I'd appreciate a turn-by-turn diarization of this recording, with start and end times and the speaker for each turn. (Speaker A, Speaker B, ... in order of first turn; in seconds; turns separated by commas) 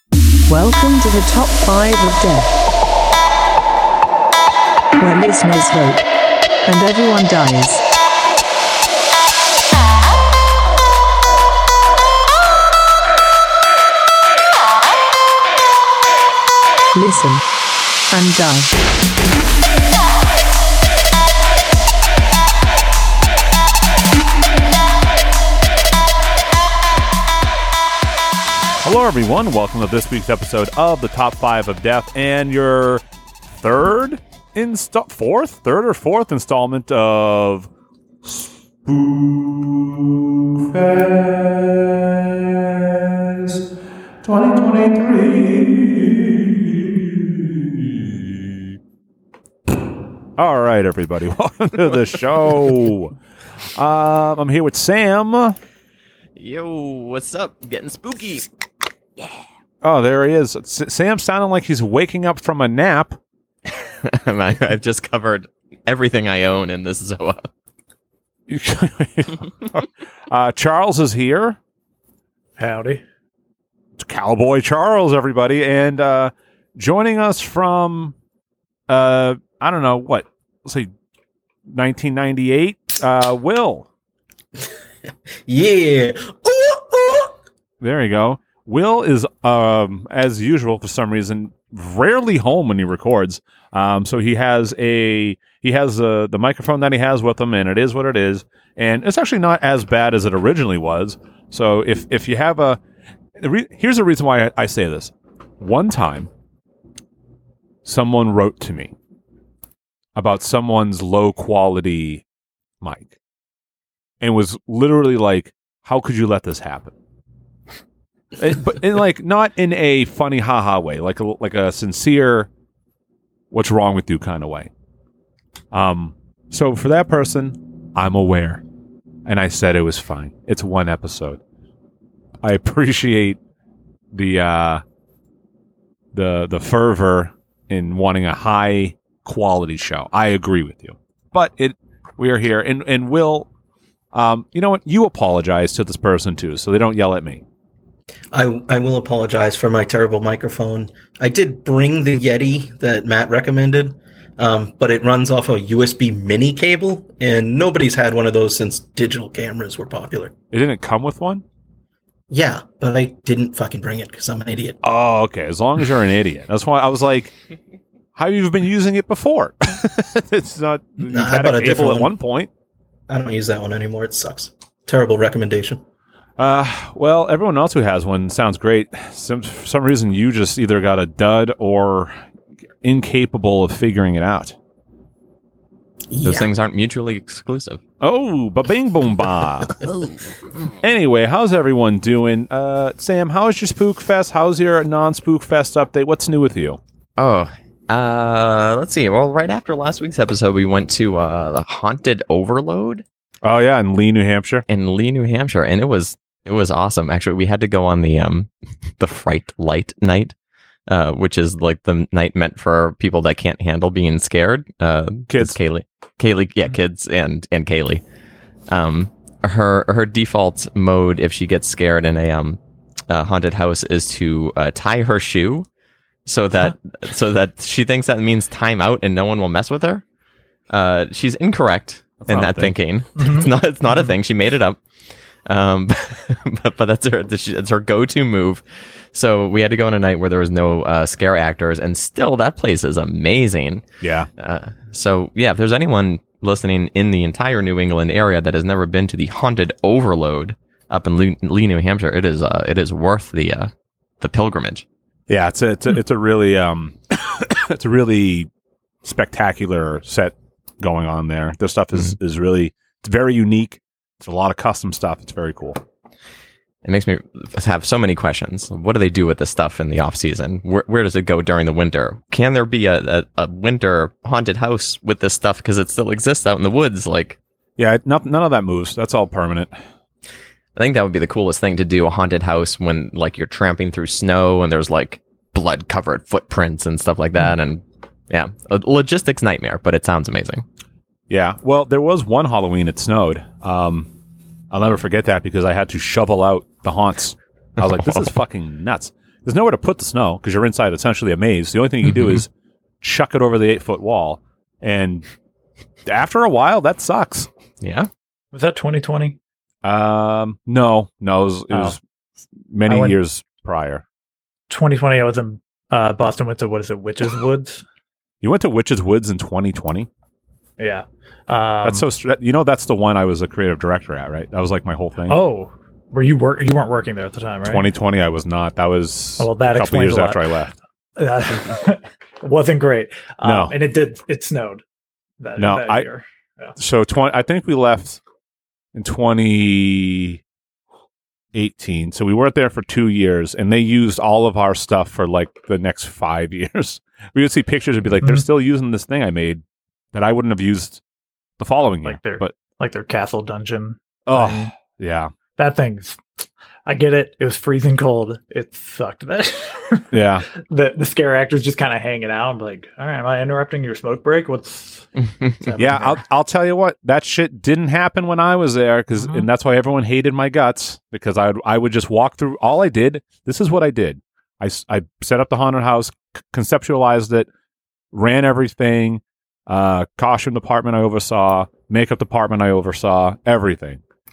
Speaker A: 0.5-2.5, Speaker A: 5.0-6.1, Speaker A: 6.6-7.8, Speaker A: 16.9-17.4, Speaker A: 18.1-18.7, Speaker B: 28.8-37.7, Speaker B: 38.2-43.6, Speaker B: 44.2-48.8, Speaker B: 50.4-53.1, Speaker B: 53.8-55.6, Speaker C: 56.4-58.5, Speaker B: 59.8-63.2, Speaker C: 63.7-67.5, Speaker B: 68.5-71.6, Speaker D: 72.6-73.0, Speaker B: 74.0-78.1, Speaker B: 78.9-80.9, Speaker B: 81.7-83.9, Speaker E: 85.5-87.3, Speaker B: 87.8-102.8, Speaker B: 103.4-106.3, Speaker B: 107.8-108.9, Speaker B: 110.2-112.2, Speaker B: 112.8-113.1, Speaker B: 114.2-116.9, Speaker B: 118.4-122.5, Speaker B: 123.5-124.7, Speaker B: 125.7-128.6, Speaker B: 129.2-131.4, Speaker B: 132.4-133.4, Speaker B: 134.1-134.8, Speaker B: 136.1-143.5, Speaker B: 144.1-147.4, Speaker E: 148.3-160.3, Speaker B: 160.5-161.4, Speaker E: 162.3-164.8, Speaker B: 164.8-167.3, Speaker B: 168.2-172.5, Speaker E: 171.1-172.1, Speaker E: 173.1-175.8, Speaker B: 176.4-182.1, Speaker B: 182.8-184.6, Speaker E: 186.1-186.5, Speaker C: 186.2-187.8, Speaker B: 188.0-189.8, Speaker B: 190.8-196.8, Speaker C: 197.2-203.0, Speaker B: 203.4-204.6, Speaker C: 204.7-210.3, Speaker C: 210.9-218.0, Speaker B: 215.3-215.6, Speaker C: 218.7-225.7, Speaker C: 226.2-230.0, Speaker C: 230.7-234.8, Speaker B: 232.2-232.7, Speaker D: 233.2-233.5, Speaker C: 235.4-243.8, Speaker B: 244.0-244.3, Speaker C: 244.4-254.8, Speaker B: 255.3-258.5, Speaker B: 259.0-265.8, Speaker C: 266.8-277.4, Speaker B: 277.8-279.7, Speaker C: 280.8-290.6, Speaker B: 291.3-294.1, Speaker B: 294.7-302.5, Speaker C: 297.8-298.3, Speaker B: 303.0-305.2, Speaker B: 306.1-307.5, Speaker C: 307.8-308.1, Speaker D: 308.5-309.4, Speaker B: 309.8-312.0, Speaker D: 311.7-311.9, Speaker B: 312.7-314.0, Speaker D: 312.9-313.2, Speaker D: 314.7-317.8, Speaker B: 318.4-320.1, Speaker D: 320.8-322.1, Speaker B: 321.8-325.4, Speaker D: 325.3-327.8, Speaker B: 327.6-330.7, Speaker D: 329.4-330.5, Speaker D: 331.1-334.8, Speaker B: 333.4-333.7, Speaker D: 335.4-336.7, Speaker B: 335.6-336.1, Speaker B: 336.8-338.2, Speaker B: 338.9-340.4, Speaker B: 341.5-349.6, Speaker B: 350.1-351.0, Speaker B: 351.6-352.5, Speaker D: 352.0-354.7, Speaker B: 354.3-355.3, Speaker D: 355.6-365.1, Speaker B: 360.1-360.5, Speaker D: 365.6-366.2, Speaker B: 365.8-377.5, Speaker D: 369.1-369.4, Speaker B: 378.1-384.0